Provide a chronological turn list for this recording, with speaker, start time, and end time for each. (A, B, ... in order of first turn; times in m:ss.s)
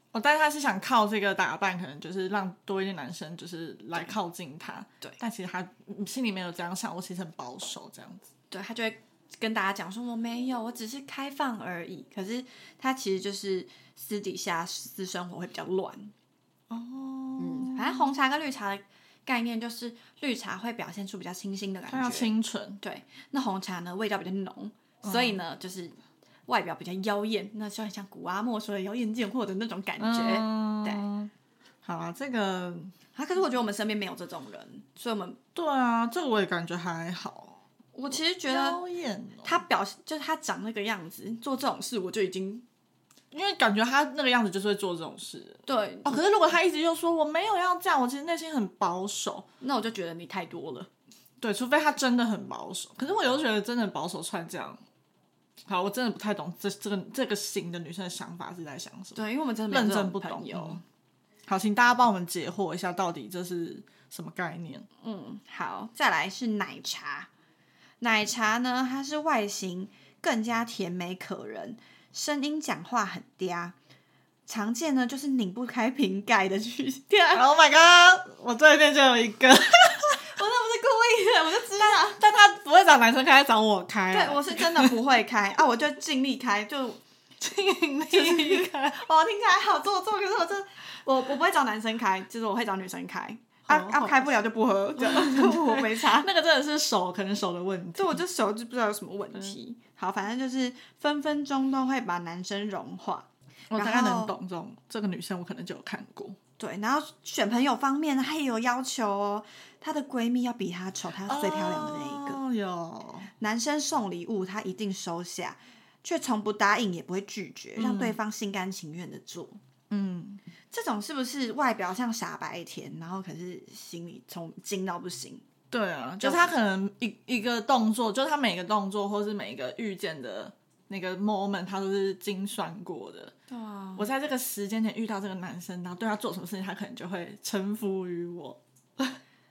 0:00.1-0:08.3 A
0:08.5-0:16.1 B
0:16.7-0:18.1 A
0:17.4-0:31.0 B
0:21.9-0:22.8 A
0:25.0-0:25.4 A
0:30.0-0:31.3 A
0:31.8-0:32.9 A
0:33.1-0:35.4 B
0:35.5-0:37.6 A
0:37.9-0:38.8 B
0:38.4-0:39.6 A
0:39.4-0:42.6 B
0:43.3-0:49.4 A
0:45.6-0:46.2 B
0:49.6-0:50.9 B
0:51.4-0:54.8 A
0:55.7-1:00.8 A
0:59.2-1:00.8 B
1:01.5-1:04.9 A
1:05.0-1:07.3 B
1:08.0-1:13.8 B
1:14.5-1:17.5 B
1:17.3-1:20.2 A
1:20.1-1:22.2 B
1:21.8-1:25.0 A
1:24.1-1:27.0 B
1:27.4-1:29.1 A
1:28.1-1:36.3 B
1:33.7-1:34.3 A
1:35.0-1:38.2 A
1:38.0-1:44.4 B
1:43.7-1:46.4 A
1:46.6-1:52.4 B
1:51.2-1:53.3 A
1:53.4-1:59.6 B
1:57.8-1:58.2 A
1:59.9-2:00.4 A
2:00.7-2:05.4 B
2:05.7-2:13.3 A
2:06.2-2:06.5 B
2:13.5-2:14.1 B
2:14.0-2:19.2 A